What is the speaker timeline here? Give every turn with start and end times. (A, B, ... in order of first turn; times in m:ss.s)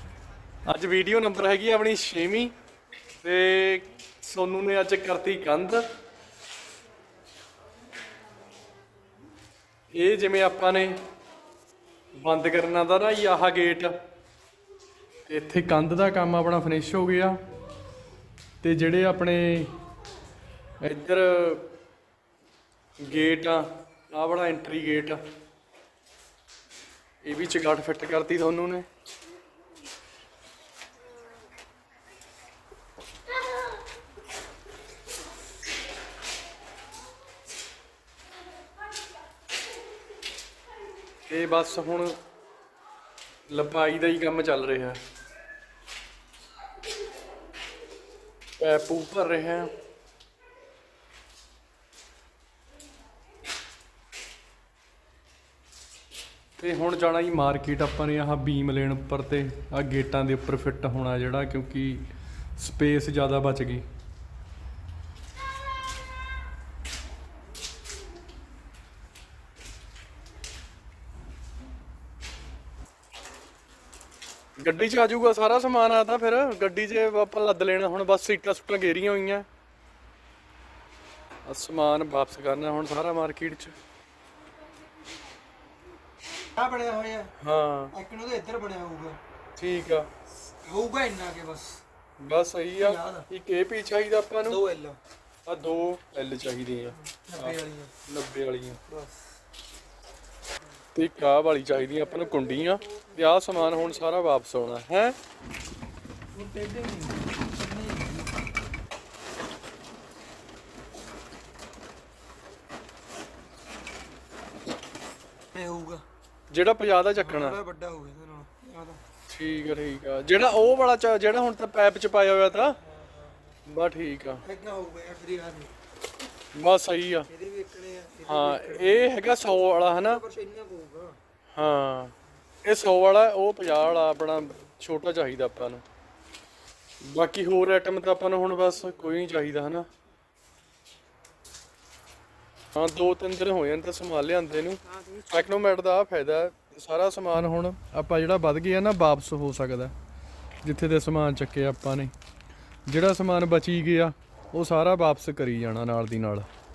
0:00.6-0:02.5 A
0:03.2-0:05.9 A
0:09.9-0:11.0 A
0:12.2-0:14.0 A
0:15.3-0:17.4 A
0:18.6-0:19.8 A
0:20.8-0:21.7 A
0:23.0-0:25.2 A
0:27.2-0:28.9 A
0:41.3-0:42.2 A
0:43.5-0:45.0 A
0:48.6-0:49.7 A
0:56.6-1:03.9 A
1:14.6-1:19.5 A
1:21.4-1:23.7 A
1:26.5-1:27.3 B
1:27.4-1:28.0 A
1:27.9-1:29.2 B
1:29.6-1:30.1 A
1:30.6-1:31.8 B
1:32.2-1:34.6 A
1:32.8-1:33.3 B
1:34.5-1:35.0 B
1:35.5-1:38.8 A
1:37.1-1:37.9 B
1:38.9-1:39.2 B
1:40.9-1:45.2 A
1:46.3-1:48.4 B
1:55.5-1:56.0 B
1:56.5-1:57.6 A
1:57.2-1:59.0 B
1:59.3-2:02.8 A
2:03.7-2:04.4 A
2:04.4-2:05.7 B
2:06.5-2:07.3 A
2:07.3-2:09.0 B
2:08.2-2:10.2 A
2:10.0-2:11.2 B
2:11.6-2:15.8 A
2:17.0-2:19.9 A
2:22.8-2:29.9 A
2:30.6-2:32.1 A
2:32.9-2:36.5 A